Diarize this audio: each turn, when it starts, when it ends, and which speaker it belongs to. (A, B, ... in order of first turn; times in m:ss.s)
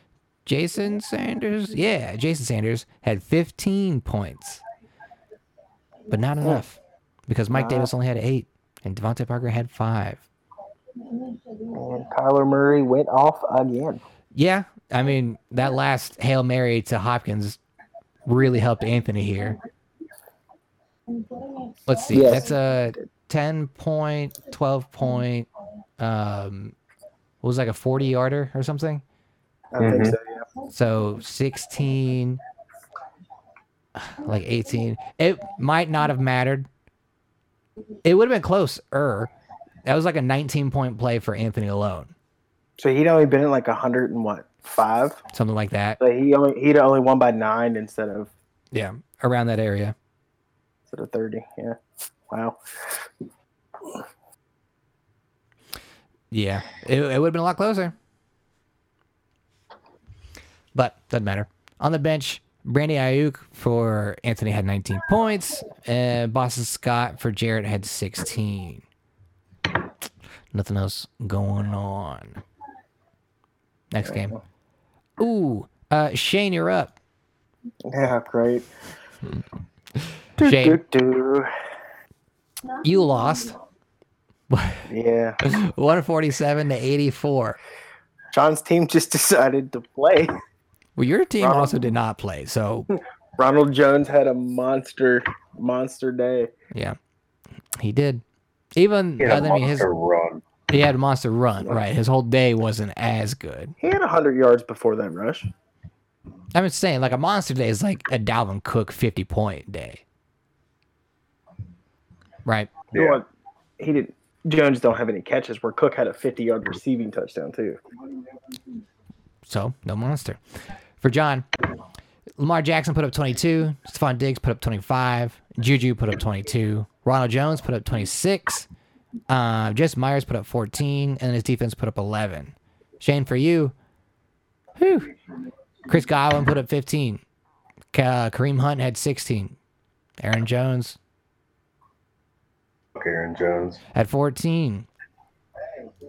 0:00.4-0:04.6 A
0:06.1-0:10.2 A
0:07.5-0:07.9 B
0:11.6-0:14.0 B
0:14.3-0:17.6 A
0:18.2-0:19.6 A
0:21.9-0:25.5 A
0:22.1-0:22.5 B
0:26.0-0:26.7 A
0:27.4-0:29.0 A
0:29.7-0:30.4 B
0:29.8-0:30.2 C
0:30.7-0:32.4 A
0:34.0-0:36.7 A
0:38.0-0:39.3 A
0:39.8-0:42.1 A
0:42.8-0:45.2 B
0:45.3-0:46.0 A
0:46.0-0:48.3 B
0:48.7-0:49.9 A
0:50.9-0:51.8 B
0:52.3-0:52.6 B
0:56.3-0:57.9 A
1:00.7-1:08.8 A
1:10.5-1:12.4 A
1:13.9-1:14.3 A
1:14.0-1:14.4 B
1:15.2-1:16.9 A
1:17.9-1:18.6 B
1:20.4-1:21.5 B
1:20.4-1:20.8 A
1:22.8-1:23.6 A
1:24.5-1:24.8 A
1:24.9-1:25.4 B
1:25.4-1:27.6 A
1:28.3-1:30.4 B
1:31.0-1:32.9 A
1:31.4-1:31.7 B
1:33.4-1:36.5 B
1:37.8-1:38.2 A
1:38.7-1:39.9 A
1:39.2-1:40.4 C
1:40.7-1:43.7 A
1:43.8-1:45.5 B
1:46.5-1:50.0 A
1:52.4-1:52.7 A
1:52.9-1:53.2 C
1:52.9-1:53.2 B
1:53.8-1:57.8 B
1:59.4-2:00.4 A
2:01.0-2:01.4 A
2:02.4-2:08.7 A
2:09.3-2:13.7 A
2:14.8-2:15.1 A
2:15.9-2:17.2 A
2:17.9-2:19.6 A
2:20.2-2:21.0 A
2:22.9-2:23.8 C
2:23.9-2:24.9 A